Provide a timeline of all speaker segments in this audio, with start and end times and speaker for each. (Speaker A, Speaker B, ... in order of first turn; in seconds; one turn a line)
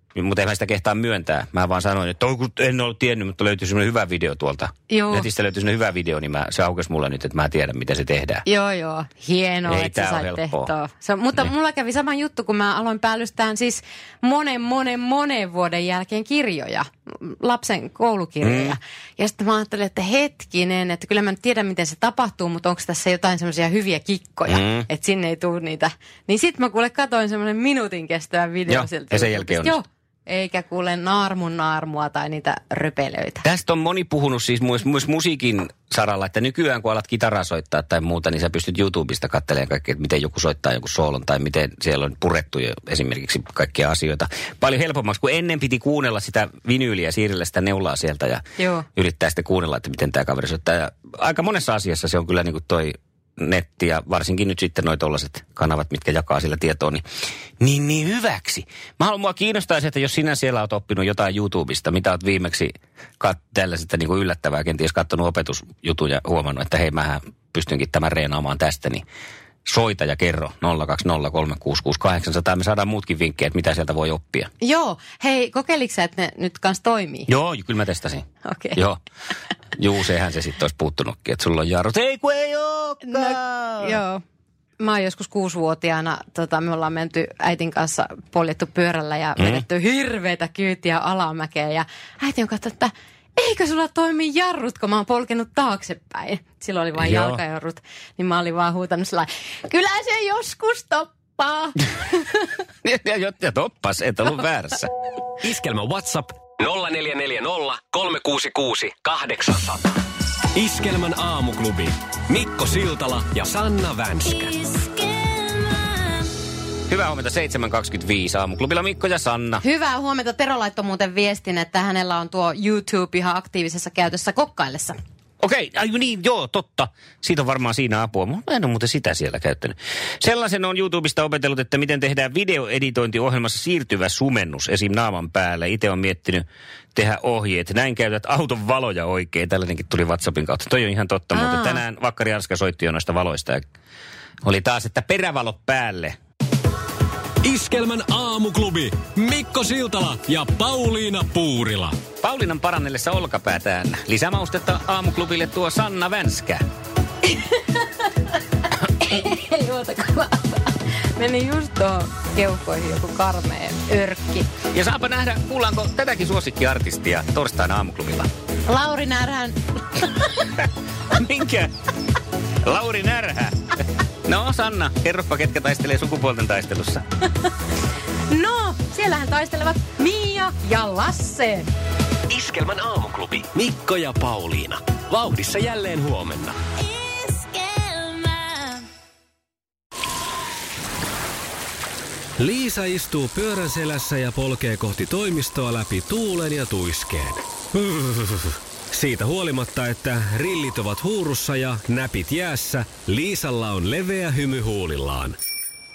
Speaker A: 0.1-8.4
Speaker B: 4.9-5.3
Speaker B: 8.4-33.4
Speaker A: 9.7-10.7
Speaker A: 18.4-18.8
Speaker A: 24.5-24.9
Speaker A: 28.7-29.8
Speaker A: 33.4-48.4
Speaker B: 48.6-48.9
Speaker A: 49.0-57.0
Speaker A: 57.6-69.0
Speaker A: 69.7-74.5
Speaker B: 74.6-77.3
Speaker A: 77.3-79.0
Speaker B: 78.4-78.8
Speaker A: 79.8-84.0
Speaker B: 83.0-84.2
Speaker B: 84.8-102.5
Speaker A: 89.4-89.6
Speaker A: 97.0-97.4
Speaker A: 102.8-104.9
Speaker C: 105.4-110.0
Speaker C: 110.5-114.6
Speaker B: 114.8-115.6
Speaker A: 116.9-119.6
Speaker B: 119.6-125.0
Speaker A: 125.4-143.7
Speaker B: 141.3-141.8
Speaker A: 144.4-146.2
Speaker C: 147.4-152.0
Speaker A: 152.2-156.6
Speaker B: 159.0-164.5
Speaker A: 164.7-168.3
Speaker B: 168.7-170.3
Speaker A: 171.1-171.7
Speaker A: 172.6-173.7
Speaker A: 174.3-177.1
Speaker B: 178.3-181.7
Speaker C: 182.3-186.6
Speaker B: 187.1-188.0
Speaker C: 192.4-205.4